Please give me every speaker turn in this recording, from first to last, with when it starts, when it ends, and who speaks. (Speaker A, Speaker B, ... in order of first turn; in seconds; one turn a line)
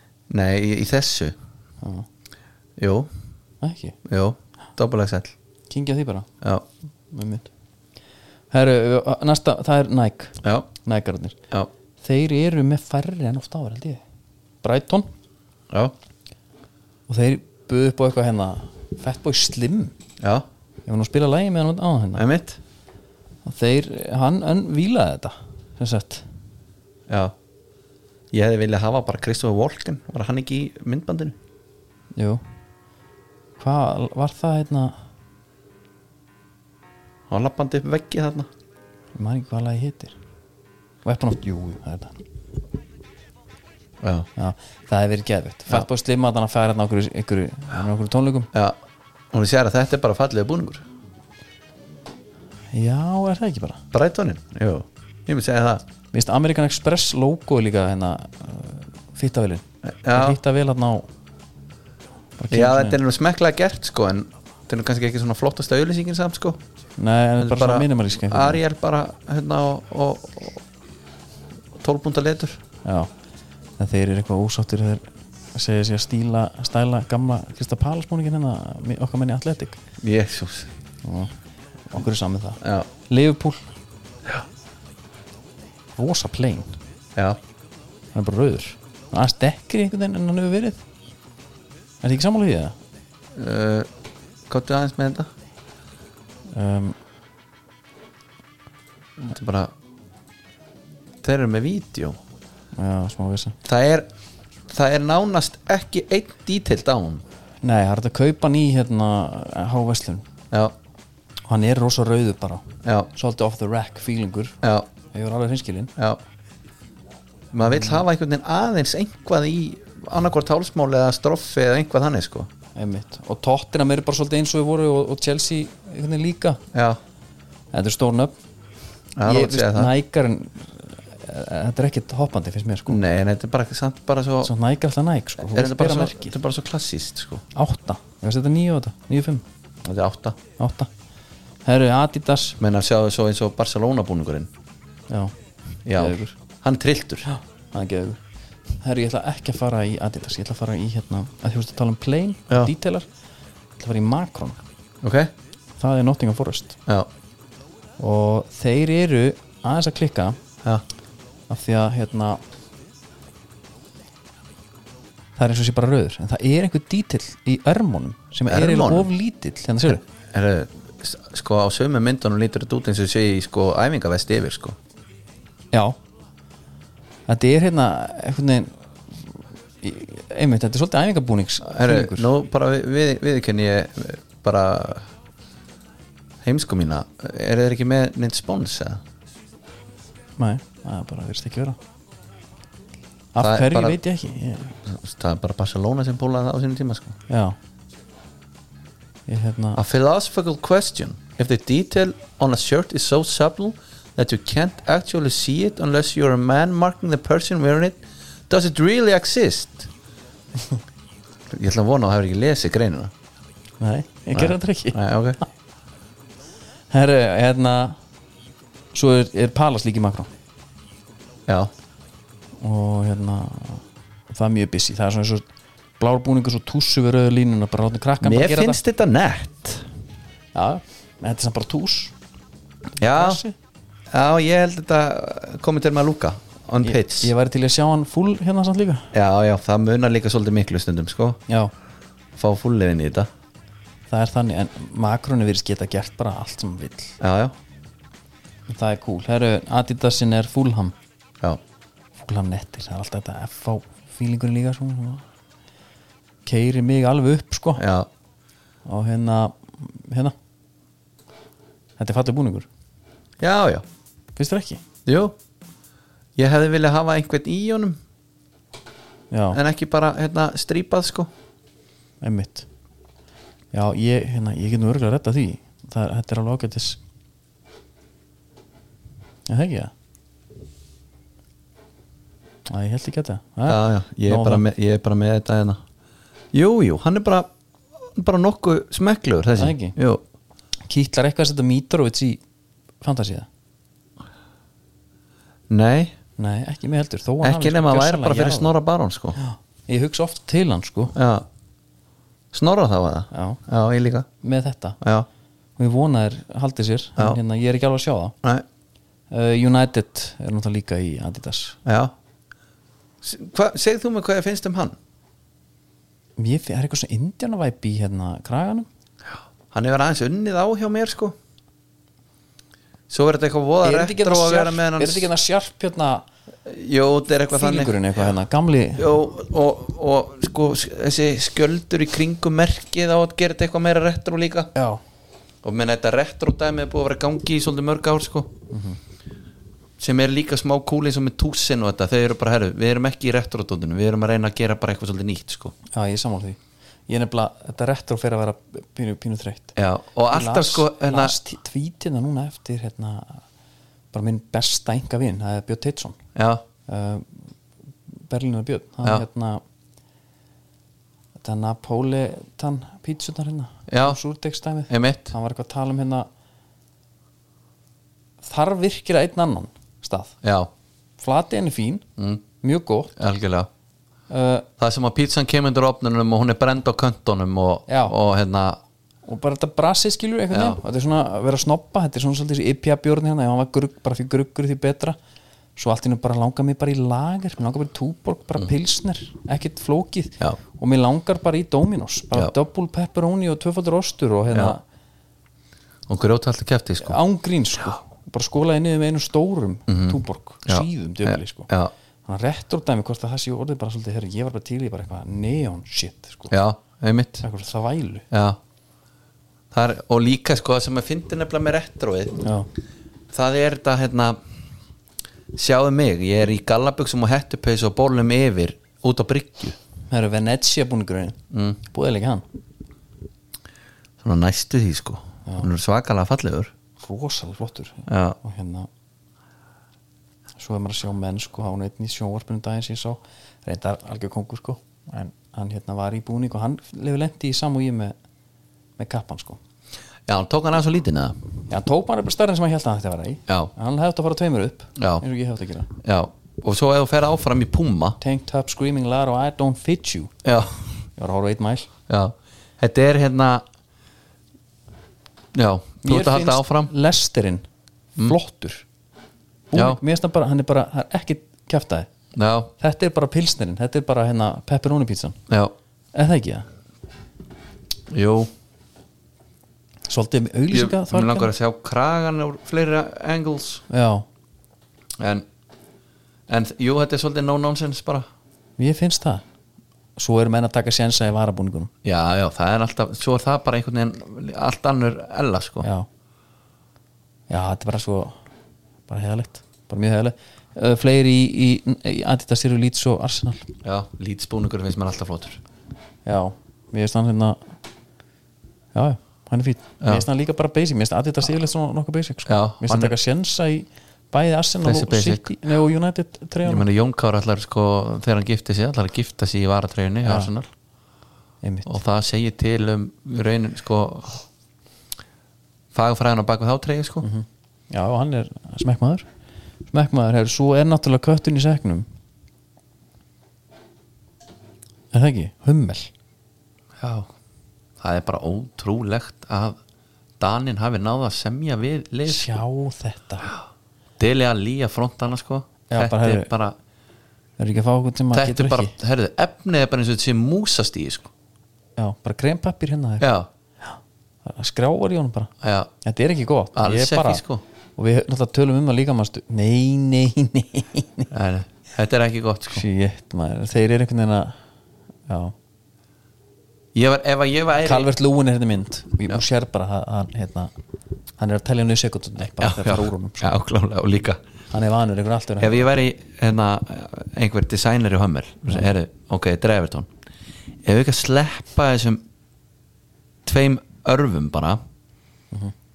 Speaker A: 0.3-1.4
Speaker B: 1.8-2.0
Speaker A: 2.8-3.1
Speaker B: 3.6-4.0
Speaker A: 4.0-5.3
Speaker B: 5.7-6.3
Speaker B: 7.1-7.5
Speaker B: 8.5-11.4
Speaker A: 10.4-10.7
Speaker B: 12.0-14.0
Speaker B: 14.6-15.1
Speaker B: 17.1-19.9
Speaker A: 20.2-20.4
Speaker B: 20.9-22.2
Speaker A: 22.1-22.6
Speaker B: 23.4-26.2
Speaker A: 27.1-27.3
Speaker A: 28.3-31.4
Speaker B: 32.1-32.4
Speaker B: 33.6-35.0
Speaker A: 37.3-38.5
Speaker B: 39.1-40.1
Speaker B: 41.0-42.2
Speaker A: 44.0-44.3
Speaker B: 44.4-48.5
Speaker A: 48.5-48.8
Speaker A: 49.3-50.8
Speaker B: 52.7-53.8
Speaker A: 53.9-55.8
Speaker B: 56.1-61.1
Speaker A: 59.8-60.4
Speaker B: 62.4-63.0
Speaker A: 62.5-66.6
Speaker B: 67.0-68.6
Speaker A: 67.4-70.6
Speaker A: 71.8-72.6
Speaker B: 72.8-73.1
Speaker B: 73.8-79.8
Speaker A: 80.0-80.7
Speaker B: 81.0-81.3
Speaker B: 81.9-83.6
Speaker A: 82.6-82.9
Speaker B: 86.0-86.8
Speaker B: 88.1-90.8
Speaker B: 92.0-92.8
Speaker A: 93.3-93.9
Speaker A: 94.5-95.3
Speaker B: 96.5-97.0
Speaker A: 99.2-99.7
Speaker A: 101.2-102.2
Speaker B: 102.7-103.6
Speaker A: 103.6-104.1
Speaker A: 104.7-107.2
Speaker B: 107.6-110.3
Speaker B: 111.5-114.5
Speaker A: 114.6-114.9
Speaker B: 115.1-115.9
Speaker A: 117.5-122.5
Speaker B: 117.7-118.0
Speaker B: 122.7-126.6
Speaker A: 126.7-127.0
Speaker B: 127.7-128.3
Speaker A: 129.2-129.9
Speaker B: 129.2-133.0
Speaker A: 132.9-134.5
Speaker B: 134.4-136.3
Speaker A: 135.4-137.4
Speaker B: 137.5-139.4
Speaker A: 139.8-140.4
Speaker B: 140.6-140.9
Speaker B: 141.6-142.6
Speaker A: 142.6-144.5
Speaker A: 145.8-147.3
Speaker B: 145.9-146.3
Speaker B: 147.2-148.2
Speaker B: 148.8-153.1
Speaker B: 153.8-154.6
Speaker A: 155.0-155.3
Speaker B: 155.8-156.8
Speaker B: 158.0-160.4
Speaker B: 161.5-162.4
Speaker B: 165.4-170.0
Speaker A: 168.5-169.1
Speaker A: 170.3-174.8
Speaker B: 177.3-182.3
Speaker A: 181.6-185.1
Speaker A: 186.4-189.0
Speaker B: 190.4-191.8
Speaker B: 193.3-194.8
Speaker A: 193.4-194.0
Speaker A: 194.8-197.2
Speaker B: 197.3-197.6
Speaker B: 199.3-199.8
Speaker A: 199.8-209.9
Speaker A: 211.5-213.1
Speaker B: 213.8-215.4
Speaker A: 214.3-215.4
Speaker B: 216.9-218.0
Speaker B: 218.9-220.3
Speaker B: 222.6-225.4
Speaker B: 226.0-228.8
Speaker A: 228.2-229.9
Speaker B: 230.5-232.1
Speaker B: 233.0-233.5
Speaker A: 233.0-233.4
Speaker A: 234.1-237.3
Speaker B: 236.8-239.1
Speaker A: 239.1-241.4
Speaker A: 242.3-243.3
Speaker B: 244.1-247.2
Speaker A: 247.2-247.5
Speaker B: 248.7-250.9
Speaker B: 252.2-255.2
Speaker B: 256.4-257.8
Speaker A: 257.8-258.1
Speaker B: 258.9-260.3
Speaker B: 262.0-262.7
Speaker A: 263.4-263.8
Speaker B: 264.4-264.8
Speaker A: 265.1-265.3
Speaker A: 266.4-268.0
Speaker B: 269.3-269.6
Speaker A: 269.5-271.3
Speaker B: 272.2-272.7
Speaker B: 273.7-277.0
Speaker B: 279.5-279.9
Speaker B: 282.7-284.6
Speaker A: 283.7-285.8
Speaker A: 286.5-287.5
Speaker A: 288.0-290.2
Speaker B: 289.6-289.9
Speaker B: 290.9-292.4
Speaker B: 293.0-293.5
Speaker A: 295.7-296.1
Speaker B: 296.4-298.7
Speaker A: 297.4-299.4
Speaker B: 299.4-301.1
Speaker A: 301.1-301.4
Speaker A: 302.5-304.3
Speaker B: 303.3-303.6
Speaker B: 304.4-305.0
Speaker A: 305.0-305.3
Speaker B: 305.8-308.3
Speaker B: 309.3-311.8
Speaker A: 311.8-312.1
Speaker A: 313.2-315.0
Speaker B: 316.4-318.9
Speaker A: 319.7-321.4
Speaker A: 323.1-325.3
Speaker B: 323.8-326.3
Speaker A: 326.6-328.3
Speaker B: 327.5-329.1
Speaker A: 328.9-334.7
Speaker B: 334.7-335.0
Speaker A: 335.6-338.5
Speaker B: 338.7-339.0
Speaker A: 340.0-345.7
Speaker B: 345.9-349.7
Speaker A: 349.8-351.4
Speaker B: 350.3-353.4
Speaker B: 354.1-356.2
Speaker A: 356.3-356.6
Speaker B: 356.9-357.3
Speaker B: 358.2-359.6
Speaker B: 361.4-366.3
Speaker A: 363.9-364.2
Speaker A: 364.9-365.3
Speaker B: 368.4-370.3
Speaker A: 370.4-370.7
Speaker B: 371.2-372.0
Speaker A: 372.2-372.4
Speaker B: 372.6-373.1
Speaker A: 373.2-373.7
Speaker B: 374.3-374.7
Speaker A: 374.8-378.8
Speaker B: 377.9-378.1
Speaker B: 379.2-385.2
Speaker A: 380.5-380.8
Speaker B: 385.8-394.8
Speaker A: 394.5-394.8
Speaker A: 396.1-397.2
Speaker B: 397.0-401.7
Speaker A: 399.9-401.9
Speaker B: 402.2-406.5
Speaker A: 406.5-407.4
Speaker B: 407.4-408.2
Speaker A: 408.3-408.6
Speaker A: 409.7-412.4
Speaker B: 412.4-412.7
Speaker A: 413.3-414.4
Speaker A: 415.5-419.8
Speaker B: 420.1-422.4
Speaker A: 421.5-421.8
Speaker A: 424.2-426.7
Speaker B: 427.0-428.9
Speaker A: 428.1-428.4
Speaker B: 430.6-438.1
Speaker B: 439.0-439.6
Speaker A: 440.3-441.4
Speaker B: 441.7-445.9
Speaker A: 445.0-445.2
Speaker A: 446.0-448.2
Speaker B: 448.2-450.3
Speaker A: 450.4-451.0
Speaker B: 451.2-451.9
Speaker A: 452.1-453.6
Speaker A: 455.5-456.9
Speaker B: 456.0-457.6
Speaker B: 458.2-458.9
Speaker B: 459.7-462.1
Speaker A: 459.7-460.0
Speaker A: 462.3-462.7
Speaker B: 462.8-465.4
Speaker A: 465.5-465.7
Speaker B: 466.1-466.7
Speaker A: 468.1-468.5
Speaker B: 470.1-471.5
Speaker A: 470.7-473.8
Speaker B: 473.9-474.2
Speaker A: 475.2-475.4
Speaker A: 476.5-478.3
Speaker B: 478.8-479.4
Speaker B: 480.2-481.9
Speaker A: 482.0-485.9
Speaker B: 487.5-488.4
Speaker B: 489.1-493.7
Speaker A: 493.8-495.6
Speaker B: 496.2-497.7
Speaker B: 498.9-506.9
Speaker A: 502.4-503.1
Speaker A: 504.8-505.5
Speaker A: 506.6-510.6
Speaker B: 510.2-510.5
Speaker B: 511.6-511.9
Speaker A: 511.9-514.4
Speaker A: 515.9-517.2
Speaker B: 517.2-519.2
Speaker B: 519.9-522.0
Speaker B: 525.1-526.1
Speaker A: 527.0-527.3
Speaker A: 528.0-529.8
Speaker A: 530.4-532.5
Speaker B: 532.3-533.5
Speaker A: 534.2-536.8
Speaker B: 535.9-536.5
Speaker B: 537.6-538.9
Speaker A: 538.3-541.3
Speaker B: 542.0-543.3
Speaker A: 543.2-543.5
Speaker B: 543.8-547.4
Speaker A: 545.6-545.9
Speaker A: 546.7-547.6
Speaker B: 548.0-551.3
Speaker A: 551.3-552.8
Speaker B: 552.7-554.6
Speaker B: 555.3-555.5
Speaker A: 556.9-558.1
Speaker B: 557.8-560.7
Speaker B: 561.4-563.6
Speaker A: 562.6-564.4
Speaker B: 564.7-565.9
Speaker A: 565.6-570.1
Speaker A: 570.8-572.2
Speaker A: 573.4-574.8